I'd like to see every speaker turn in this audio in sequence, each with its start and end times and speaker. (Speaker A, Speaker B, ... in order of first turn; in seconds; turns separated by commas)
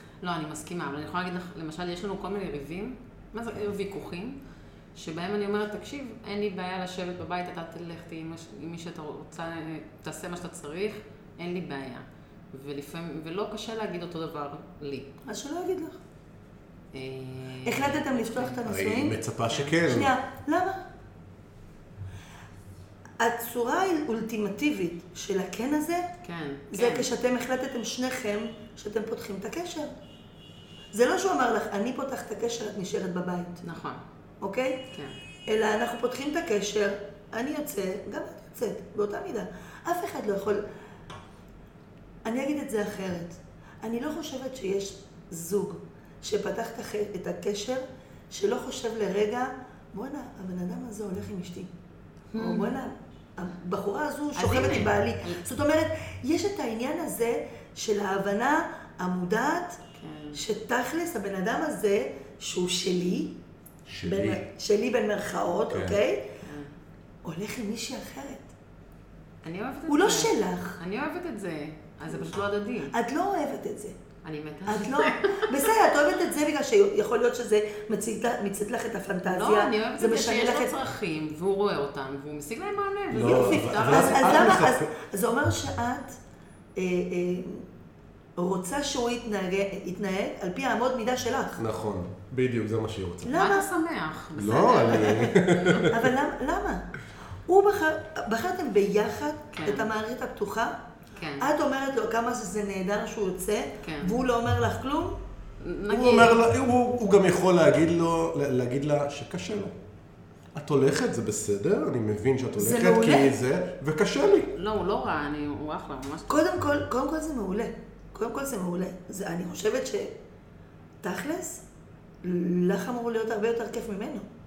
Speaker A: 0.2-4.4, Speaker A: 4.9-15.2, Speaker B: 15.3-16.0, Speaker A: 16.9-18.6, Speaker B: 17.6-19.2, Speaker C: 18.6-20.1, Speaker A: 19.5-19.8, Speaker B: 19.8-20.8, Speaker B: 23.2-26.1, Speaker A: 26.2-27.1, Speaker B: 26.7-29.9, Speaker B: 30.9-33.6, Speaker A: 33.6-34.0, Speaker B: 34.4-34.9, Speaker A: 34.9-35.1, Speaker B: 35.5-40.6, Speaker B: 42.2-51.7, Speaker A: 52.3-52.7, Speaker B: 52.3-59.8, Speaker A: 54.4-55.4, Speaker A: 59.9-60.4, Speaker B: 60.3-63.4, Speaker C: 63.9-64.4, Speaker B: 64.0-66.3, Speaker C: 65.7-66.0, Speaker A: 66.4-66.7, Speaker B: 67.2-68.5, Speaker A: 69.4-72.9, Speaker B: 69.9-70.8, Speaker B: 72.9-74.0, Speaker A: 74.2-75.7, Speaker B: 74.7-80.7, Speaker A: 79.2-84.6, Speaker C: 83.1-84.9, Speaker B: 83.2-86.2, Speaker B: 86.8-87.7, Speaker B: 88.4-91.6, Speaker C: 91.6-93.4, Speaker B: 93.2-93.7, Speaker A: 93.3-95.9, Speaker C: 94.3-96.1, Speaker B: 95.0-95.3, Speaker B: 95.8-96.9, Speaker B: 97.5-100.7, Speaker A: 99.5-99.9, Speaker A: 101.2-101.5, Speaker B: 101.4-105.2, Speaker A: 103.8-104.2, Speaker A: 105.6-106.4, Speaker C: 105.9-109.7, Speaker C: 110.5-114.5, Speaker B: 112.6-113.3, Speaker A: 114.5-116.4, Speaker B: 116.3-120.1, Speaker B: 121.0-121.6, Speaker B: 122.2-124.3